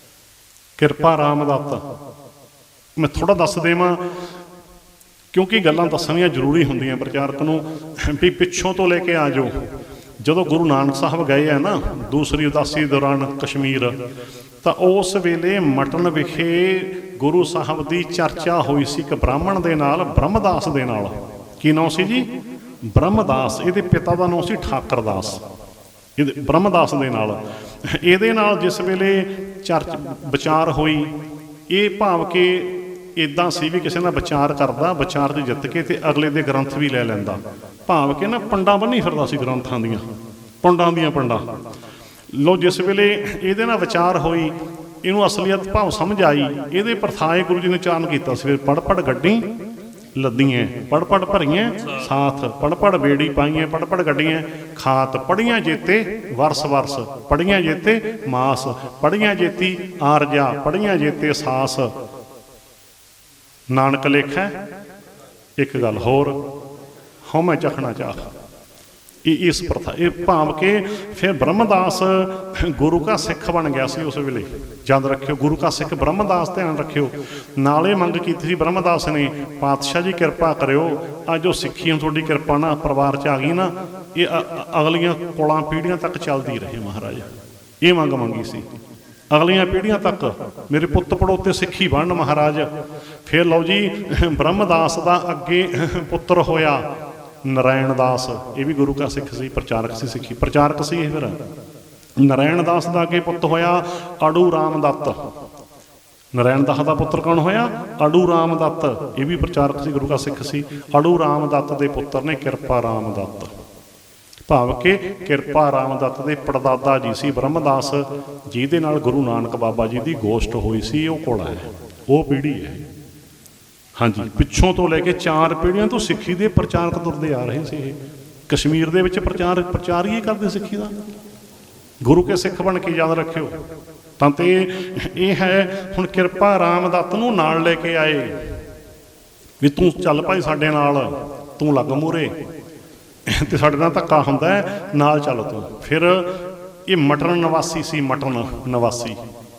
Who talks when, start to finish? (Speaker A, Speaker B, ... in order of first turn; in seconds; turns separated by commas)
Speaker A: 0.8-1.8, Speaker A: 3.0-4.0, Speaker A: 5.3-9.6, Speaker A: 10.2-13.9, Speaker A: 14.6-22.2, Speaker A: 22.9-25.4, Speaker A: 26.2-31.1, Speaker A: 31.7-40.0, Speaker A: 40.6-41.4, Speaker A: 42.3-49.4, Speaker A: 50.2-61.9, Speaker A: 63.7-64.5, Speaker A: 65.6-66.3, Speaker A: 67.2-68.3, Speaker A: 69.2-87.3, Speaker A: 87.8-88.7, Speaker A: 89.3-92.7, Speaker A: 93.3-96.8, Speaker A: 97.4-101.4, Speaker A: 102.2-105.2, Speaker A: 106.3-113.5, Speaker A: 114.5-122.8, Speaker A: 124.0-128.0, Speaker A: 128.5-130.9, Speaker A: 132.0-133.5, Speaker A: 134.2-138.3, Speaker A: 139.6-142.3, Speaker A: 143.3-146.3, Speaker A: 146.9-149.2